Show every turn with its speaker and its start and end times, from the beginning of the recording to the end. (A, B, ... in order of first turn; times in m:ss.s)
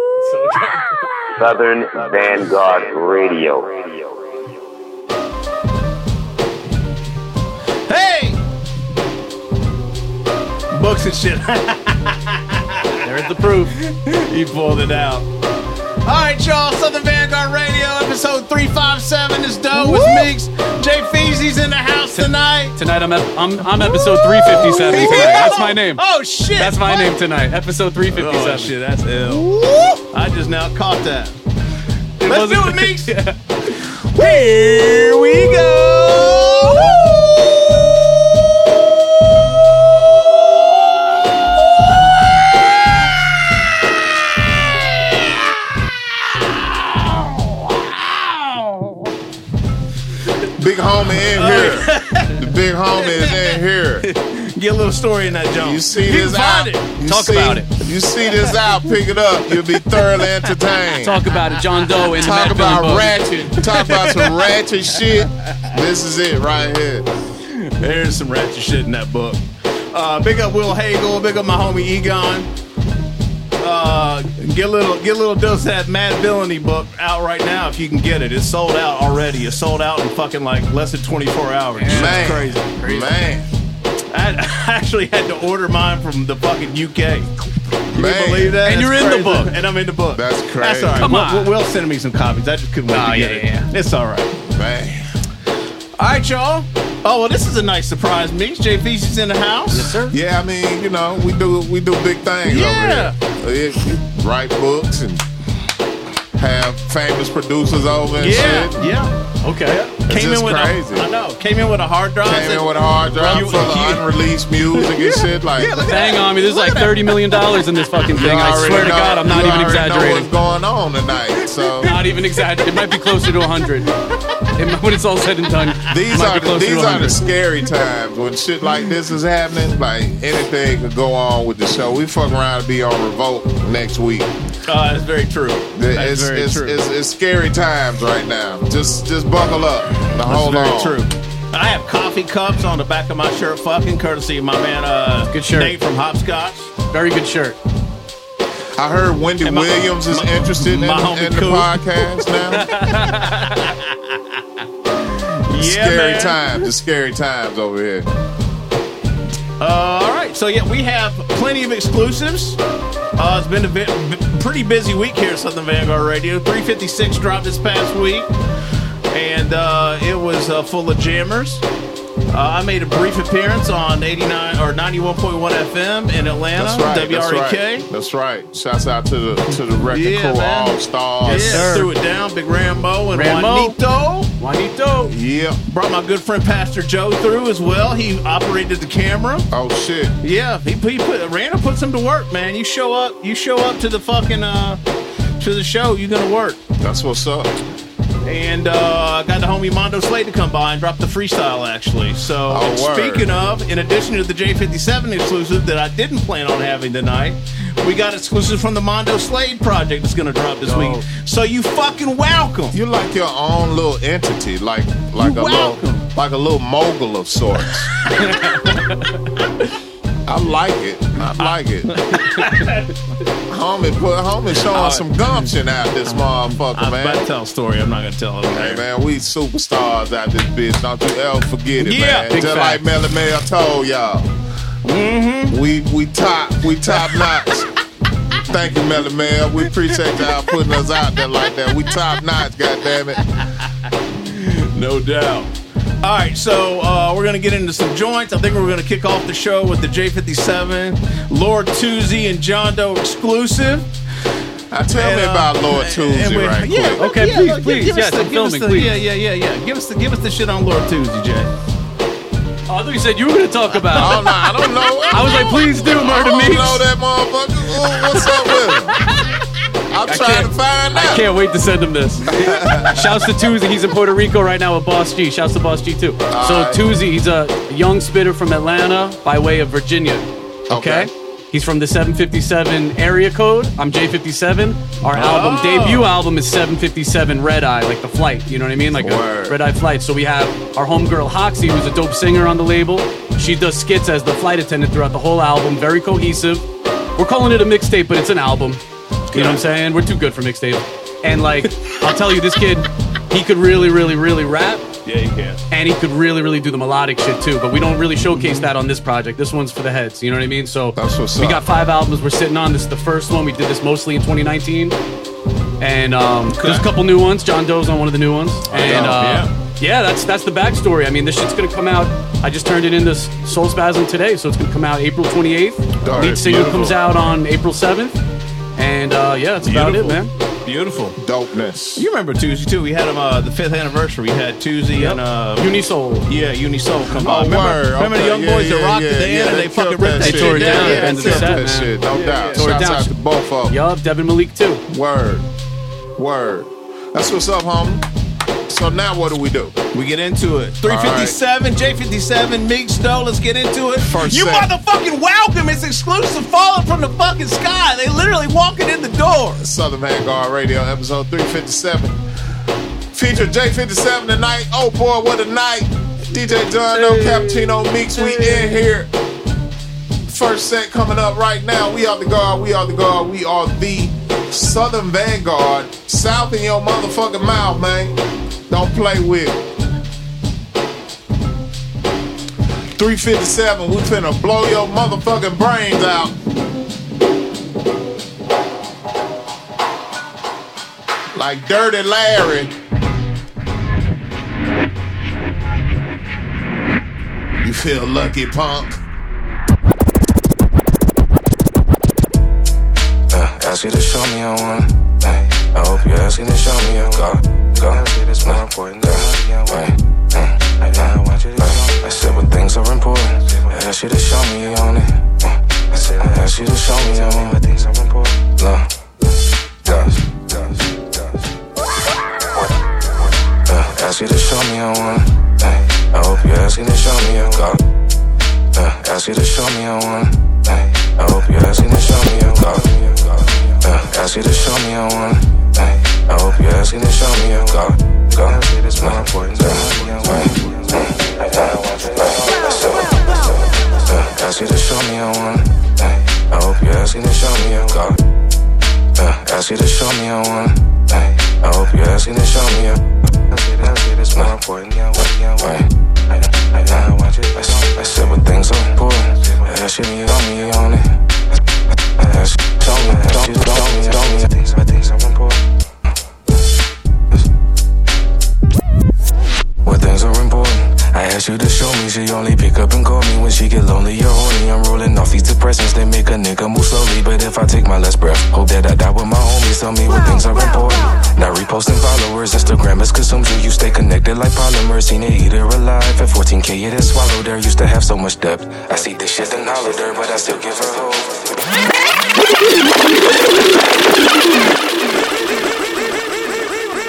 0:00.3-0:00.6 A
0:01.4-0:04.1 B
0:07.9-0:08.4 C
0:10.7-0:13.0 C
0:13.0-0:13.7 A
0:13.8-0:15.3 C
0:16.0-0:22.8 C
0:19.8-0:20.3 A
0:22.1-0:26.0 A
0:23.8-0:27.2 C
0:26.6-0:28.7 A
0:28.1-0:31.4 C
0:32.2-0:33.3 A
0:32.2-0:33.2 C
0:34.2-0:37.1 C
0:50.6-0:54.0 D
0:51.2-0:52.4 C
0:53.1-0:53.6 C
0:54.1-0:56.9 C
0:55.6-1:01.2 D
0:57.0-0:57.7 A
1:01.0-1:03.4 A
1:02.1-1:07.0 D
1:03.8-1:04.3 C
1:07.7-1:09.4 C
1:09.9-1:12.5 C
1:13.6-1:22.8 C
1:21.8-1:23.1 A
1:21.9-1:23.5 D
1:24.1-1:27.3 C
1:27.9-1:34.3 C
1:28.0-1:28.5 D
1:28.7-1:29.5 A
1:30.1-1:31.1 D
1:31.0-1:31.5 A
1:32.9-1:33.7 A
1:34.5-1:35.0 D
1:36.0-1:39.9 C
1:39.7-1:40.2 A
1:40.1-1:45.2 D
1:42.5-1:43.2 C
1:46.4-1:48.9 D
1:48.2-1:49.1 C
1:49.4-1:50.0 A
1:50.1-1:51.1 D
1:50.1-1:54.0 C
1:52.2-1:55.7 D
1:54.7-1:58.8 C
1:55.9-2:00.3 A
1:58.1-2:01.9 D
2:01.8-2:02.8 C
2:01.8-2:03.9 A
2:04.6-2:07.2 A
2:05.9-2:14.3 D
2:14.7-2:16.8 C
2:15.8-2:21.0 D
2:20.2-2:26.7 C
2:25.3-2:25.7 A
2:26.9-2:27.6 A
2:28.8-2:32.7 D
2:29.4-2:34.4 C
2:35.5-2:36.6 C
2:35.6-2:38.1 D
2:39.6-2:42.6 C
2:43.2-2:48.3 C
2:49.1-2:51.6 C
2:52.3-2:57.9 C
2:56.6-3:01.7 D
2:59.9-3:04.3 C
3:01.3-3:01.9 A
3:03.1-3:03.8 A
3:04.4-3:05.1 A
3:05.1-3:05.6 D
3:05.7-3:09.5 C
3:09.5-3:10.2 D
3:10.2-3:14.8 C
3:15.4-3:16.6 C
3:16.8-3:17.5 D
3:18.2-3:32.8 C
3:22.5-3:23.3 D
3:30.7-3:31.0 A
3:32.7-3:37.9 D
3:35.2-3:36.1 A
3:38.2-3:38.5 A
3:40.3-3:41.9 D
3:41.4-3:42.8 C
3:42.3-3:42.6 A
3:43.5-3:47.2 D
3:44.5-3:45.5 C
3:46.1-3:48.8 C
3:48.5-3:54.3 D
3:51.8-3:52.7 C
3:52.3-3:52.8 A
3:54.8-3:55.6 C
3:55.5-3:57.6 D
3:58.5-4:03.2 D
4:04.3-4:05.5 C
4:06.0-4:13.9 C
4:14.7-4:17.0 D
4:14.9-4:21.5 C
4:17.0-4:18.9 A
4:22.7-4:26.9 A
4:24.0-4:28.9 D
4:29.9-4:31.3 D
4:30.1-4:56.6 A
4:32.4-4:33.0 D
4:36.3-4:36.8 D
4:40.7-4:41.1 D
4:45.1-4:46.1 C
4:49.0-4:49.6 D
4:57.2-4:58.8 A
4:59.3-4:59.6 C
4:59.3-5:04.8 A
5:05.0-5:05.6 C
5:05.7-5:15.0 A
5:08.4-5:08.7 C
5:11.0-5:11.6 D
5:15.8-5:28.2 A
5:16.6-5:16.9 C
5:18.7-5:19.5 C
5:18.8-5:19.2 D
5:26.0-5:27.0 D
5:28.8-5:30.3 A
5:29.6-5:31.2 C
5:31.2-5:32.0 D
5:32.0-5:42.6 C
5:35.0-5:36.3 A
5:37.2-5:43.8 D
5:40.1-5:43.1 A
5:43.7-5:44.8 A
5:44.9-5:45.5 D
5:46.2-5:48.0 D
5:48.7-5:49.8 D
5:49.9-5:59.6 C
5:50.9-5:51.4 D
5:54.0-5:54.7 D
5:59.6-6:02.2 D
6:03.1-6:09.1 D
6:06.9-6:07.6 C
6:08.2-6:08.8 C
6:10.3-6:18.2 D
6:18.7-6:19.6 D
6:23.0-6:26.4 D
6:31.3-6:32.7 D
6:37.6-6:39.0 D
6:43.3-6:58.9 E
6:59.8-7:01.2 E
7:03.7-7:07.8 E
7:08.8-7:28.2 E
7:29.2-7:41.2 E
7:42.2-7:45.6 E
7:49.8-8:11.4 E